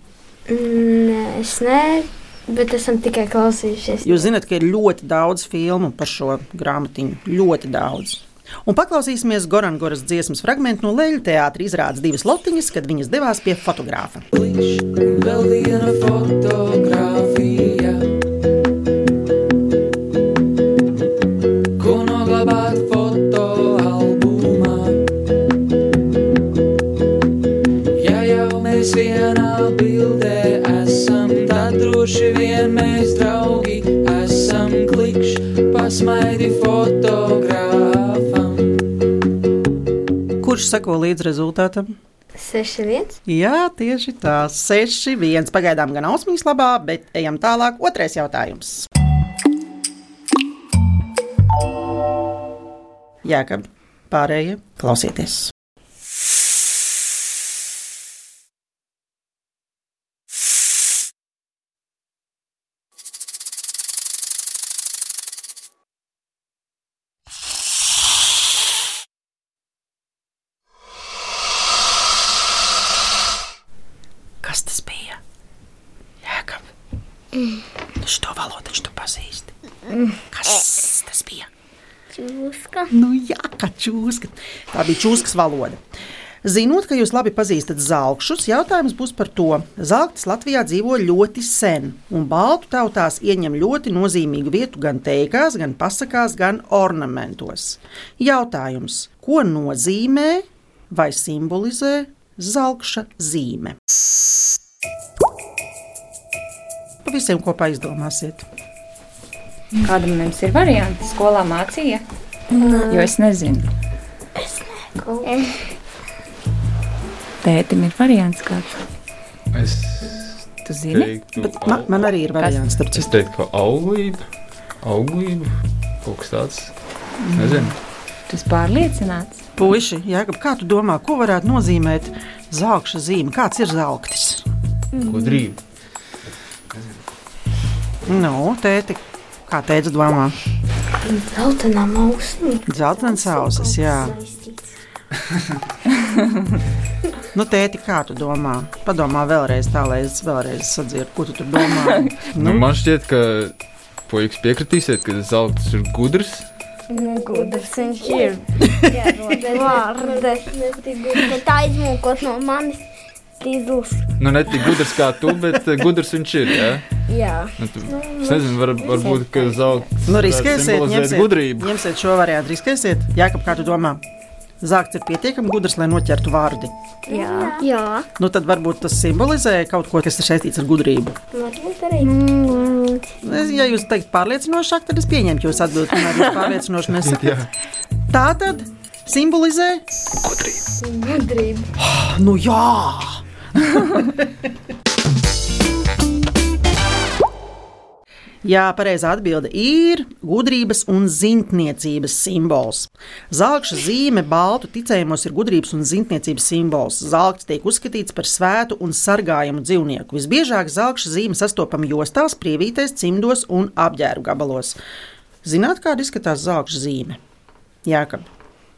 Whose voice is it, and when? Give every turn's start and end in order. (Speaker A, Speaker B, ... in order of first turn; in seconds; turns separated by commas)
Speaker A: 0.5-4.3, Speaker B: 4.0-14.2, Speaker C: 14.3-18.1, Speaker C: 21.8-25.0, Speaker C: 27.9-38.8, Speaker B: 40.4-41.9, Speaker A: 42.3-43.2, Speaker B: 43.2-48.9, Speaker B: 53.2-55.5, Speaker B: 74.4-75.2, Speaker B: 76.2-76.6, Speaker B: 78.0-79.5, Speaker B: 80.3-81.5, Speaker D: 82.1-82.9, Speaker B: 82.9-85.8, Speaker B: 86.4-103.8, Speaker B: 107.0-108.4, Speaker E: 109.8-112.0, Speaker A: 112.6-113.1, Speaker E: 112.9-113.7, Speaker A: 114.9-115.3, Speaker D: 115.2-115.5, Speaker E: 117.4-118.8, Speaker F: 119.5-122.1, Speaker E: 120.6-121.1, Speaker B: 121.4-123.2, Speaker F: 122.9-124.2, Speaker F: 124.8-125.5, Speaker F: 126.0-126.7, Speaker F: 127.3-127.7, Speaker B: 127.3-127.7, Speaker E: 128.3-129.4, Speaker B: 129.6-134.4, Speaker D: 134.9-135.4, Speaker F: 135.1-135.6, Speaker B: 138.1-140.3, Speaker A: 141.0-144.6, Speaker B: 142.7-144.2, Speaker B: 147.3-152.6, Speaker F: 152.3-153.5, Speaker F: 154.1-156.4, Speaker D: 156.9-160.5, Speaker A: 156.9-158.7, Speaker A: 159.3-161.4, Speaker D: 161.1-162.8, Speaker D: 163.4-164.1, Speaker F: 164.2-166.8, Speaker D: 167.1-167.6, Speaker F: 167.6-171.7, Speaker A: 167.9-169.0, Speaker E: 169.0-169.9, Speaker B: 170.1-174.0, Speaker B: 174.6-176.7, Speaker A: 177.1-177.6, Speaker D: 177.1-178.1, Speaker B: 178.2-181.2, Speaker A: 181.3-182.1, Speaker D: 182.0-183.2, Speaker B: 183.2-187.5, Speaker F: 186.9-187.5, Speaker B: 188.1-189.8, Speaker F: 190.2-190.6, Speaker A: 190.8-191.7, Speaker B: 191.8-193.2, Speaker B: 193.7-194.3, Speaker B: 198.4-214.8, Speaker B: 215.4-217.2, Speaker B: 217.8-218.3